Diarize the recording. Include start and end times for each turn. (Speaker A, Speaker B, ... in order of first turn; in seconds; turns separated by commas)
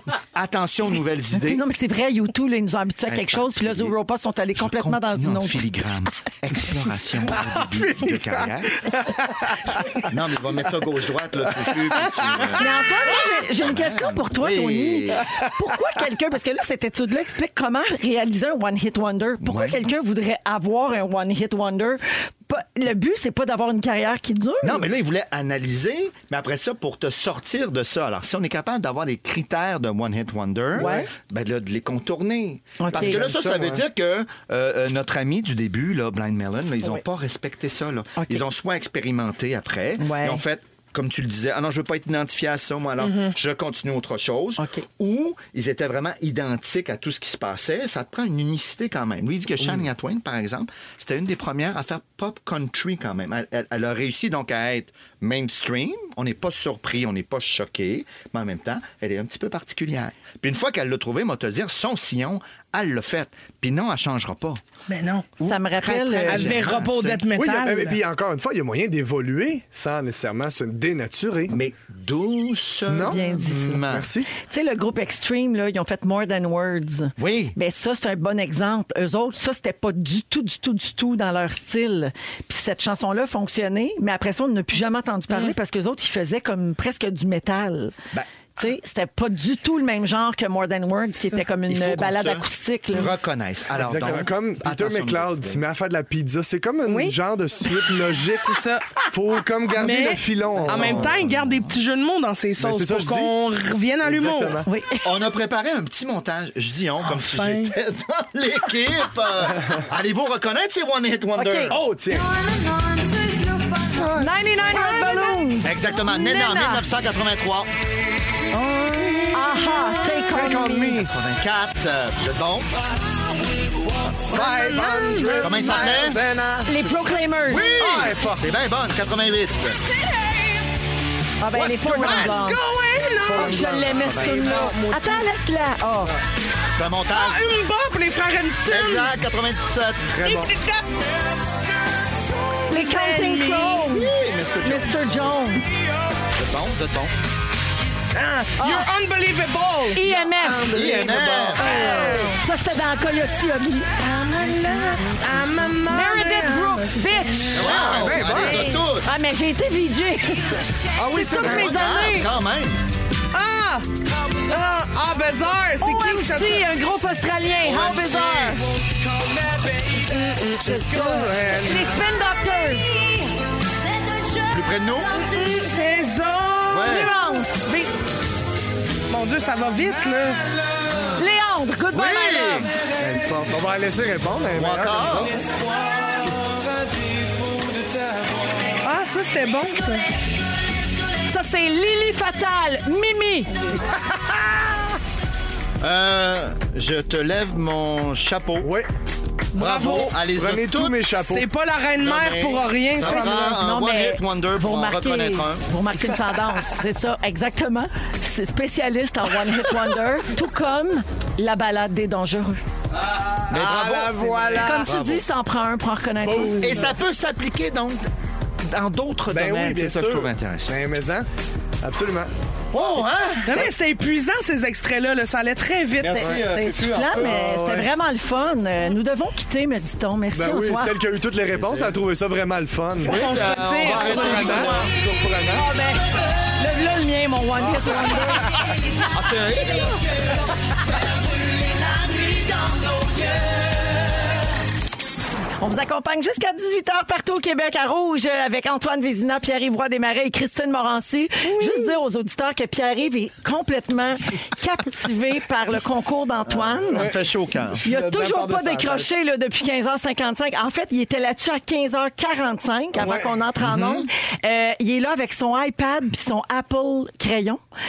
Speaker A: 0.1-1.6, Speaker B: 1.3-5.6, Speaker A: 3.1-4.0, Speaker A: 4.5-8.9, Speaker C: 7.3-10.0, Speaker A: 10.0-15.3, Speaker C: 11.6-12.6, Speaker B: 12.6-24.8, Speaker A: 19.4-19.8, Speaker A: 24.6-64.6, Speaker B: 30.8-31.1, Speaker C: 30.8-31.0, Speaker B: 32.8-33.2, Speaker C: 32.9-33.8, Speaker B: 38.1-38.4, Speaker B: 40.0-40.4, Speaker B: 44.6-44.8, Speaker D: 64.9-65.3, Speaker A: 65.4-67.2, Speaker B: 65.4-66.7, Speaker D: 66.2-68.0, Speaker C: 67.3-71.5, Speaker A: 71.5-74.1, Speaker C: 72.9-74.3, Speaker B: 73.0-73.8, Speaker B: 74.3-87.9, Speaker A: 77.2-77.5, Speaker B: 88.6-93.1, Speaker A: 91.7-95.6, Speaker C: 93.7-101.2, Speaker D: 96.8-97.8, Speaker D: 98.4-99.0, Speaker D: 99.7-104.6, Speaker A: 100.5-101.7, Speaker C: 102.6-103.3, Speaker C: 104.0-104.7, Speaker B: 104.7-105.1, Speaker A: 105.0-111.8, Speaker D: 107.0-107.7, Speaker B: 111.3-111.8, Speaker C: 111.7-112.4, Speaker C: 113.9-114.3, Speaker B: 114.2-116.8, Speaker D: 114.8-115.3, Speaker A: 115.6-117.7, Speaker A: 118.5-119.2, Speaker C: 118.9-119.3, Speaker B: 119.3-121.0, Speaker C: 120.3-121.1, Speaker A: 120.7-122.8, Speaker C: 124.3-126.8, Speaker D: 124.3-125.9, Speaker A: 125.4-126.2, Speaker B: 126.6-127.7, Speaker C: 127.5-128.5, Speaker A: 127.5-129.8, Speaker B: 131.4-132.6, Speaker A: 131.5-132.3, Speaker C: 131.7-132.3, Speaker D: 131.9-135.2, Speaker C: 133.3-134.7, Speaker B: 133.3-136.1, Speaker A: 133.8-134.5, Speaker A: 136.7-137.4, Speaker D: 137.1-139.2, Speaker A: 138.7-140.2, Speaker C: 140.1-140.5, Speaker D: 140.2-141.5, Speaker D: 142.4-144.0, Speaker B: 142.7-145.7, Speaker A: 143.8-145.4, Speaker A: 146.3-147.2, Speaker D: 148.1-150.1, Speaker B: 148.6-148.9, Speaker B: 149.9-150.8, Speaker C: 150.3-152.3, Speaker A: 150.7-152.3, Speaker B: 151.6-153.9, Speaker D: 151.9-152.1, Speaker D: 154.0-158.1, Speaker B: 155.9-162.3, Speaker A: 157.5-159.1, Speaker C: 157.6-158.7, Speaker C: 160.9-161.9, Speaker A: 161.3-162.8, Speaker D: 163.3-166.8, Speaker B: 165.8-168.6, Speaker C: 167.8-168.1, Speaker D: 169.9-171.4, Speaker B: 170.6-173.2, Speaker C: 171.0-171.9, Speaker A: 174.5-175.2, Speaker D: 175.2-177.1, Speaker A: 176.7-177.1, Speaker B: 176.8-178.0, Speaker D: 179.1-180.4, Speaker B: 181.2-182.7, Speaker A: 181.9-182.7, Speaker C: 182.9-185.5, Speaker A: 184.5-185.4, Speaker D: 188.8-190.1, Speaker B: 191.2-193.5, Speaker A: 195.8-198.7, Speaker C: 198.6-198.9, Speaker D: 199.5-200.2, Speaker A: 199.5-201.1, Speaker C: 199.9-201.5, Speaker D: 201.1-203.6, Speaker A: 202.0-205.7, Speaker B: 203.0-212.6, Speaker C: 213.3-214.9, Speaker A: 213.5-215.2, Speaker B: 214.6-216.9, Speaker C: 216.2-216.9, Speaker A: 216.5-218.1, Speaker A: 218.6-220.7, Speaker C: 219.3-221.3, Speaker C: 221.8-222.3, Speaker A: 222.7-223.7, Speaker D: 223.4-226.3, Speaker A: 226.0-227.4, Speaker B: 226.1-231.0, Speaker C: 227.1-227.9, Speaker C: 230.3-235.7, Speaker A: 231.5-232.0, Speaker D: 233.0-234.8, Speaker A: 233.0-234.9, Speaker B: 235.5-238.6, Speaker C: 237.6-238.1, Speaker A: 239.1-240.0, Speaker B: 242.1-243.0, Speaker B: 245.6-257.1, Speaker A: 256.4-257.8, Speaker C: 256.9-259.1, Speaker B: 257.8-267.6, Speaker C: 263.0-263.3, Speaker A: 263.6-264.1